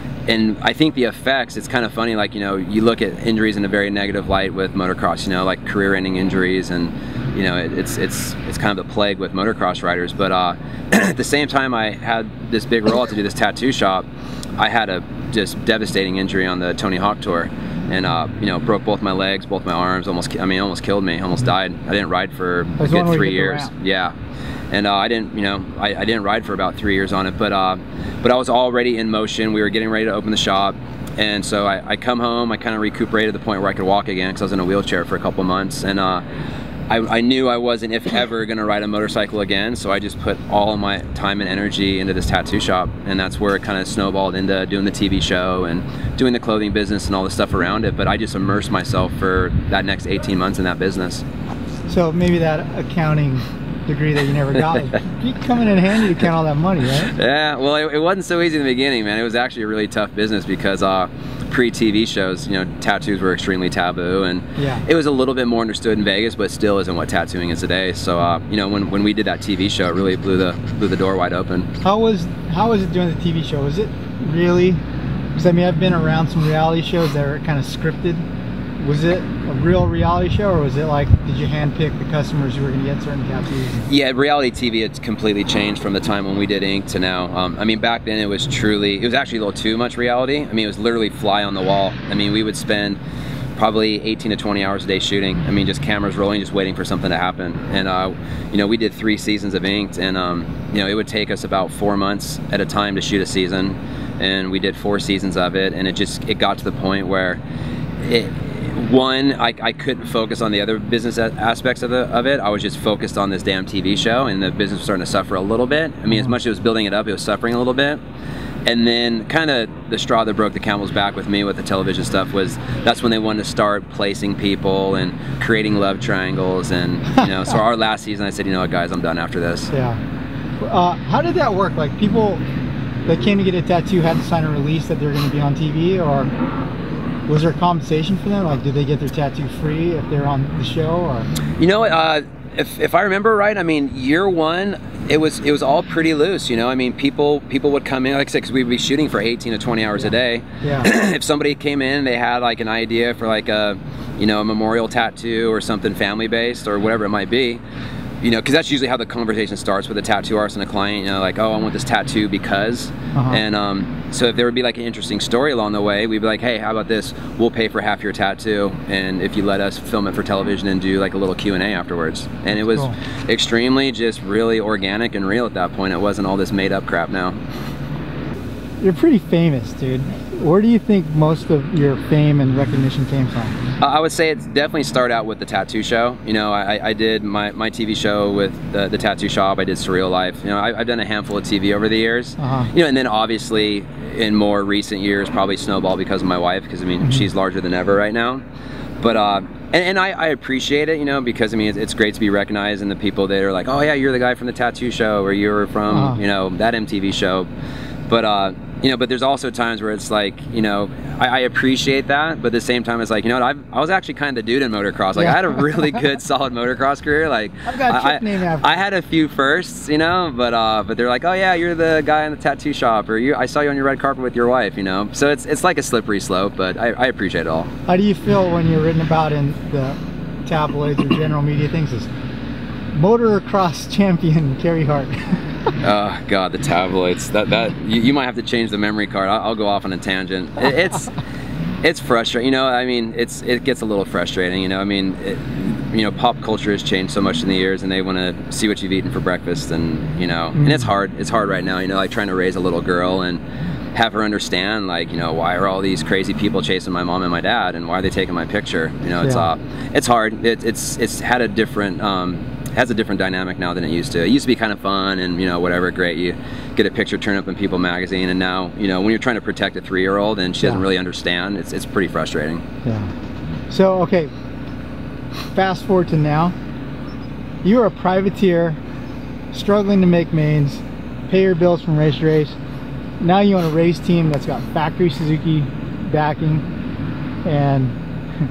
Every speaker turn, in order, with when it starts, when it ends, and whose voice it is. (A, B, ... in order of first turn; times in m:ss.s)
0:00.3-0:14.0 A
0:14.6-0:24.1 A
0:22.8-0:23.7 B
0:24.7-0:36.2 A
0:36.9-0:51.2 A
0:51.9-0:57.1 B
0:57.0-1:11.7 A
1:04.6-1:04.8 B
1:11.8-1:14.8 B
1:15.3-1:18.2 B
1:18.8-1:23.9 B
1:23.8-1:33.0 A
1:33.6-1:47.4 A
1:48.0-1:58.0 A
1:58.6-2:09.7 A
2:09.7-2:10.0 B
2:10.6-2:12.4 B
2:13.1-2:16.3 B
2:17.3-2:21.3 B
2:21.6-2:37.6 A
2:30.6-2:30.9 B
2:38.2-2:57.4 A
2:43.1-2:43.4 B
2:52.6-2:52.9 B
2:58.8-3:03.6 B
3:03.8-3:18.4 A
3:12.4-3:12.7 B
3:19.0-3:27.5 A
3:25.9-3:26.2 B
3:28.1-3:47.7 A
3:35.2-3:35.6 B
3:37.6-3:38.7 B
3:47.9-3:52.1 B
3:52.9-3:55.5 B
3:55.8-4:01.1 A
4:01.8-4:13.4 A
4:10.6-4:10.9 B
4:13.9-4:32.6 A
4:19.2-4:19.4 B
4:32.8-4:33.1 B
4:33.7-4:34.3 B
4:35.5-4:36.5 B
4:37.6-4:38.8 B
4:39.5-4:42.6 B
4:43.2-4:46.6 B
4:47.4-4:47.9 B